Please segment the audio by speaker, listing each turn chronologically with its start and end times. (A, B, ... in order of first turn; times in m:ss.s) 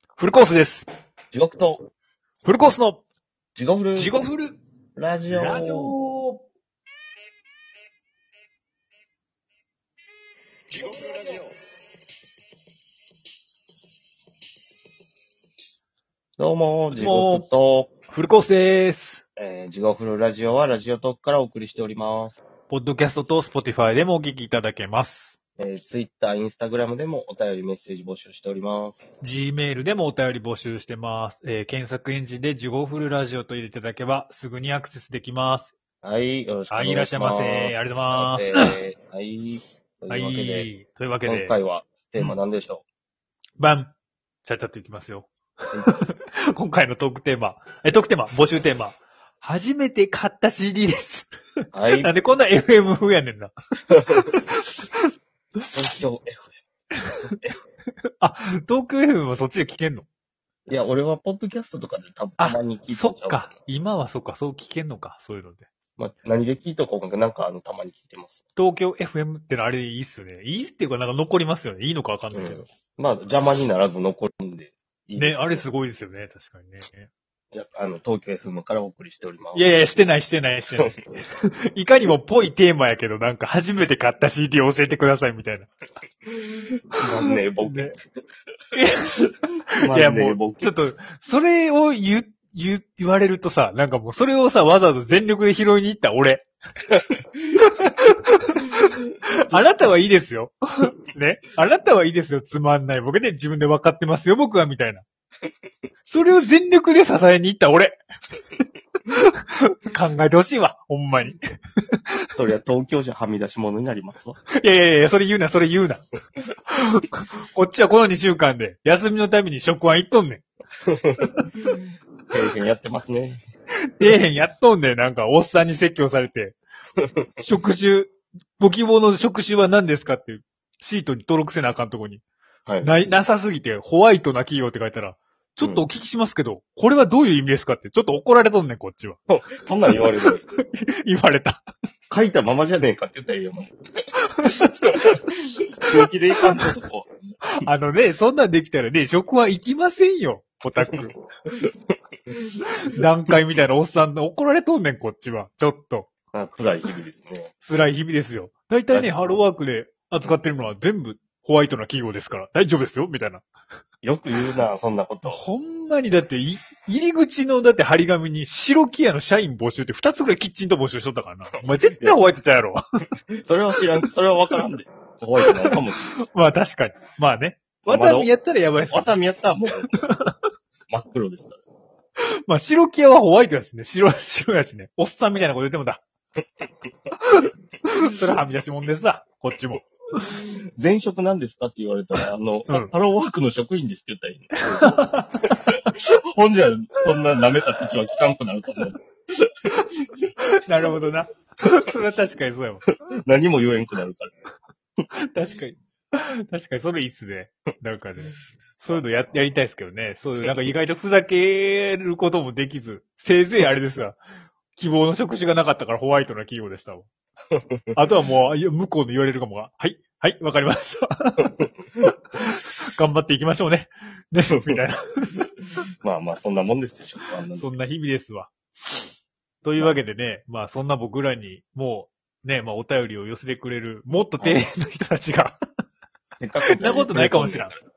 0:00.2-0:00.8 A
0:01.3-0:01.8 B
0:02.4-0:03.0 A
0:03.6-0:04.2 B
0:03.9-0:04.6 A
0:05.0-0:05.9 B
0:05.3-0:06.4 A
0:16.4-0:17.9 B
0:16.9-0:17.4 A
0:18.1-0:19.2 A
0:19.4-0:22.4 B
0:22.7-0:25.3 A
0:25.6-0:29.0 B
0:29.2-0:35.7 A
0:36.0-0:40.7 B
0:36.7-0:38.8 A
0:40.1-0:41.6 A
0:41.2-0:42.8 B
0:43.6-0:43.9 A
0:44.4-0:45.3 A
0:45.8-0:51.3 A
0:51.7-0:52.1 B
0:52.0-0:53.5 A
0:54.1-0:55.0 A
0:55.7-0:56.5 B
0:58.2-1:00.0 A
1:00.7-1:03.5 B
1:02.4-1:05.7 A
1:06.0-1:08.4 B
1:08.6-1:12.6 A
1:12.3-1:15.6 B
1:15.2-1:17.1 A
1:17.5-1:20.2 B
1:19.5-1:21.0 A
1:21.7-1:25.7 A
1:27.0-1:28.0 B
1:27.2-1:27.9 A
1:28.7-1:29.4 A
1:29.8-1:30.8 B
1:29.9-1:36.5 A
1:37.6-1:38.9 A
1:39.5-1:45.0 A
1:46.0-1:48.0 A
1:49.1-1:51.4 A
1:52.3-1:54.4 B
1:54.5-1:56.0 A
1:56.7-2:00.4 A
2:01.0-2:01.7 B
2:02.3-2:03.4 B
2:04.0-2:06.6 A
2:07.4-2:12.2 A
2:12.6-2:12.9 B
2:12.8-2:19.2 A
2:15.6-2:15.8 B
2:19.3-2:20.4 B
2:20.2-2:21.6 A
2:22.1-2:23.7 B
2:24.4-2:25.0 A
2:25.8-2:27.1 B
2:27.6-2:31.2 A
2:32.8-2:36.1 A
2:36.3-2:37.5 B
2:37.6-2:43.4 A
2:38.9-2:39.2 B
2:44.0-2:45.4 B
2:45.3-2:52.8 A
2:51.6-2:52.2 B
2:53.4-2:56.1 B
2:55.6-2:59.1 A
2:57.8-2:59.9 B
3:00.0-3:00.3 A
3:00.9-3:01.6 B
3:02.4-3:06.0 A
3:07.3-3:10.3 A
3:10.3-3:19.0 B
3:14.8-3:15.5 A
3:20.6-3:22.8 A
3:23.2-3:24.3 B
3:25.3-3:34.2 A
3:34.7-3:37.1 A
3:37.5-3:38.0 B
3:37.9-3:41.6 A
3:42.4-3:45.4 A
3:46.0-3:47.7 B
3:47.5-3:49.0 A
3:49.6-3:55.5 A
3:54.4-3:54.7 B
3:56.4-3:57.7 B
3:56.7-3:57.7 A